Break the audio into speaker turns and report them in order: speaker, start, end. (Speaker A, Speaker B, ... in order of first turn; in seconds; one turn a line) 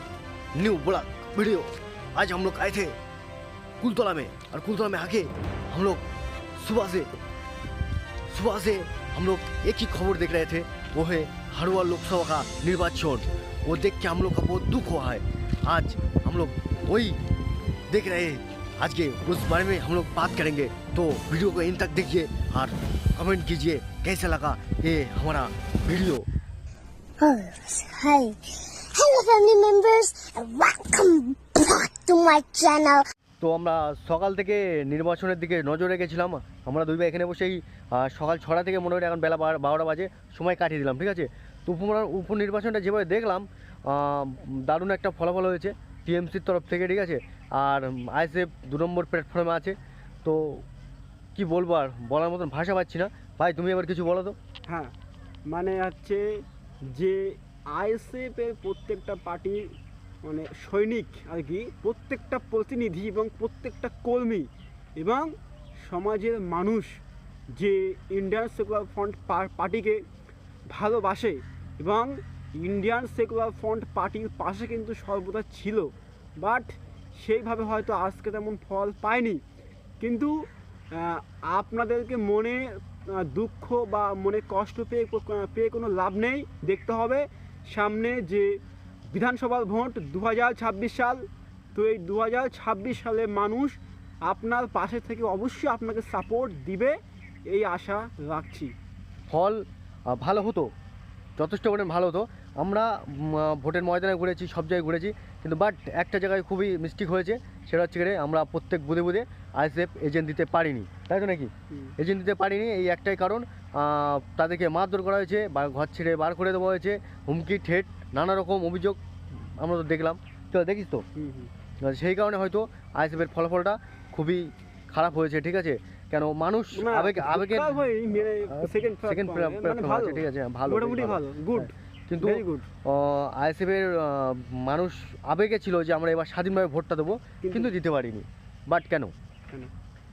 Speaker A: 0.5-2.9
Speaker A: 3.8-6.0
Speaker A: 6.6-7.1
Speaker A: 8.3-17.2
Speaker A: 17.9-26.2
Speaker B: 27.2-33.0
Speaker A: 33.4-50.6
Speaker A: 51.3-54.4
Speaker C: 54.7-54.9
Speaker C: 55.5-56.3
Speaker C: 56.9-59.6
Speaker C: 60.2-64.5
Speaker C: 65.0-65.3
Speaker C: 65.8-67.0
Speaker C: 67.5-70.0
Speaker C: 70.7-79.4
Speaker C: 80.0-80.3
Speaker C: 81.0-88.5
Speaker C: 89.1-91.2
Speaker C: 91.7-97.0
Speaker C: 97.5-98.7
Speaker A: 99.3-100.7
Speaker A: 101.4-121.0
Speaker C: 121.2-121.5
Speaker A: 121.8-139.1
Speaker C: 126.7-132.7
Speaker C: 137.4-137.7